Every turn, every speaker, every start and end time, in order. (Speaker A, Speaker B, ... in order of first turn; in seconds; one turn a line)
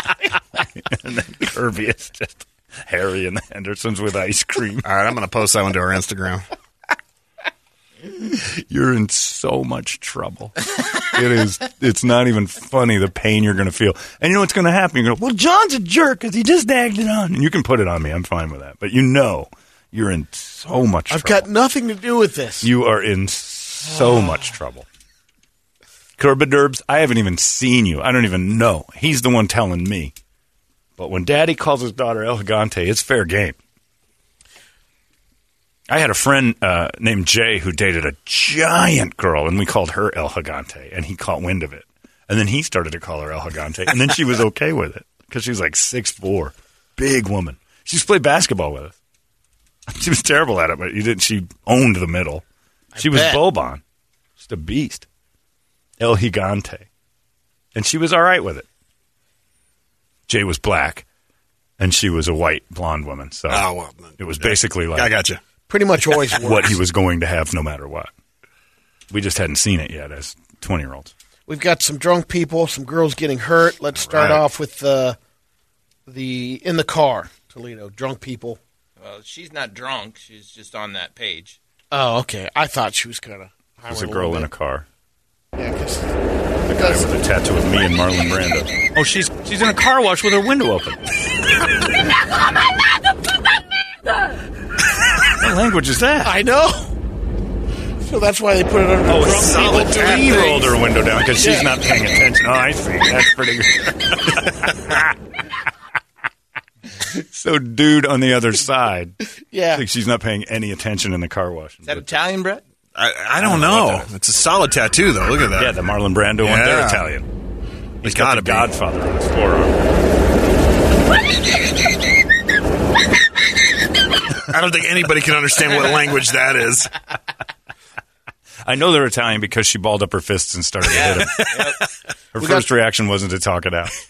Speaker A: 0.6-4.9
Speaker B: 4.8-6.4
Speaker A: 8.1-21.5
Speaker C: 21.1-22.7
Speaker A: 22.6-24.9
Speaker A: 26.2-30.1
Speaker A: 31.0-33.6
Speaker A: 35.9-48.9
Speaker A: 49.9-52.4
Speaker C: 52.9-53.4
Speaker A: 53.0-53.8
Speaker A: 54.4-55.0
Speaker A: 56.0-56.9
Speaker A: 57.7-58.6
Speaker A: 60.3-61.0
Speaker A: 61.8-65.1
Speaker B: 63.5-65.4
Speaker C: 65.7-66.7
Speaker A: 66.3-68.1
Speaker A: 69.1-71.1
Speaker C: 71.5-75.2
Speaker B: 73.9-74.4
Speaker C: 76.1-78.6
Speaker D: 79.0-81.6
Speaker C: 81.9-84.5
Speaker A: 83.9-84.8
Speaker C: 85.5-86.1
Speaker A: 86.7-91.0
Speaker C: 86.7-87.1
Speaker A: 95.2-96.3
Speaker C: 96.2-96.9
Speaker C: 98.0-100.0
Speaker A: 99.1-105.1
Speaker B: 99.4-100.7
Speaker C: 101.4-101.7
Speaker A: 107.0-109.2
Speaker C: 109.5-109.8
Speaker A: 109.7-112.2
Speaker D: 111.9-112.6
Speaker B: 112.9-115.7
Speaker A: 113.4-114.1
Speaker A: 115.6-117.3
Speaker B: 116.4-117.0
Speaker B: 118.0-118.7
Speaker A: 118.0-119.8
Speaker B: 124.5-126.9
Speaker A: 128.6-131.7
Speaker D: 130.9-131.8
Speaker A: 132.3-133.9
Speaker C: 132.4-132.7